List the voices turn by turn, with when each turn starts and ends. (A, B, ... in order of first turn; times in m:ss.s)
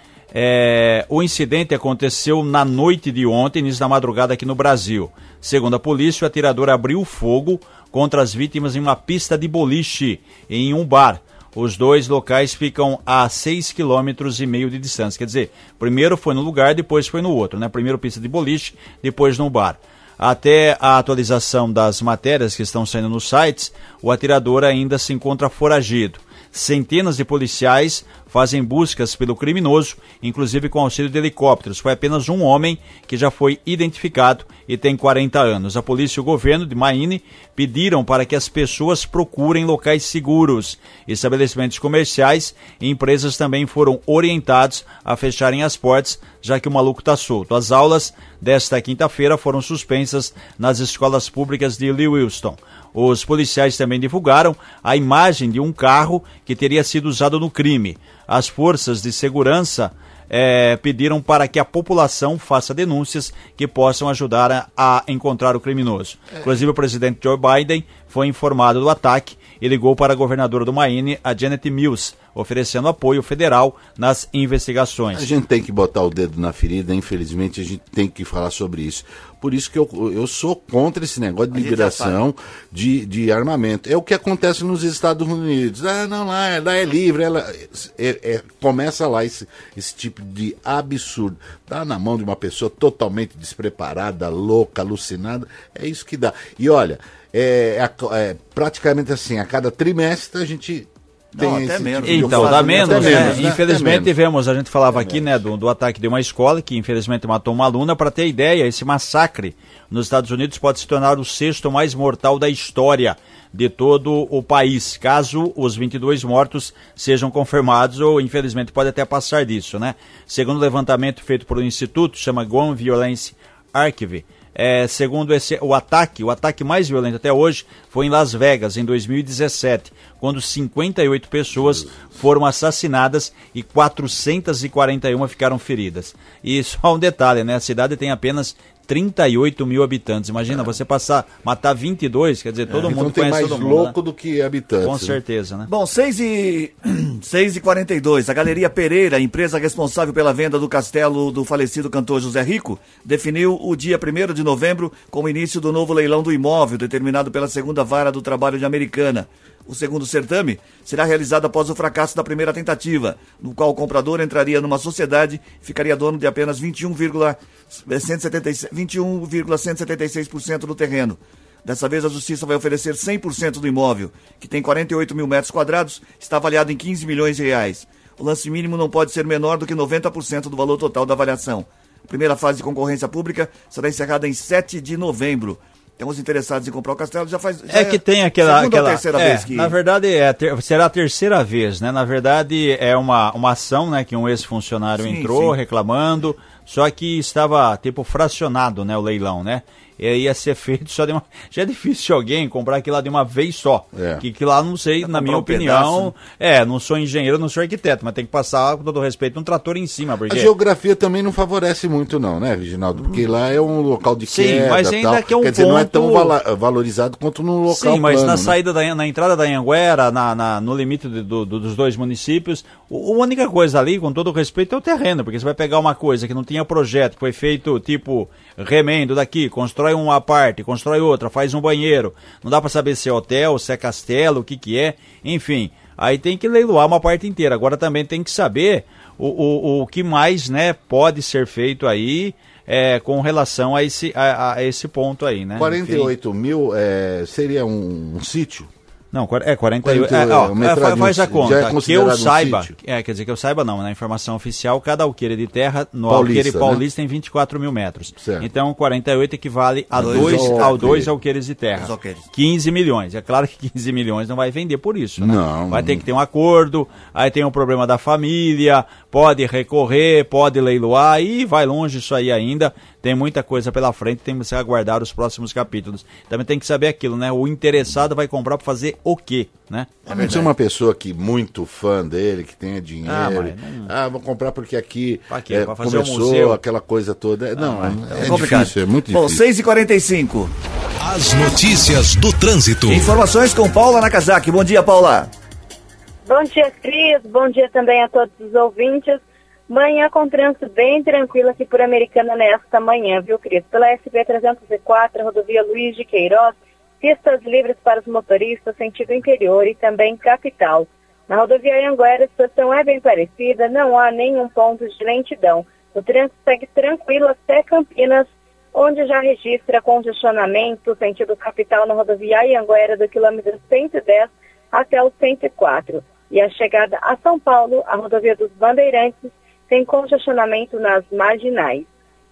0:00.3-1:15.3 A
1:15.1-1:44.1 B
1:21.5-1:22.2 C
1:41.3-1:43.4 C
1:42.0-2:23.9 A
1:44.9-1:45.4 B
2:22.8-2:25.2 B
2:24.8-2:25.7 A
2:25.7-3:09.7 C
3:07.7-3:30.5 A
3:15.0-3:15.6 C
3:23.9-3:24.2 B
3:25.0-3:26.1 C
3:30.3-3:38.5 B
3:34.3-3:36.3 A
3:37.7-4:06.1 A
4:05.6-4:08.7 B
4:09.1-4:40.0 A
4:09.8-4:12.7 B
4:16.1-4:16.8 B
4:18.2-4:18.5 B
4:19.9-4:21.1 B
4:20.0-4:20.8 C
4:21.8-4:22.2 C
4:25.2-4:26.0 B
4:40.0-4:40.5 C
4:40.1-4:49.4 B
4:43.0-4:43.9 A
4:45.3-4:46.6 A
4:47.6-4:48.6 A
4:48.2-4:50.5 C
4:51.0-4:53.1 D
4:52.9-4:55.3 C
4:56.3-5:31.9 E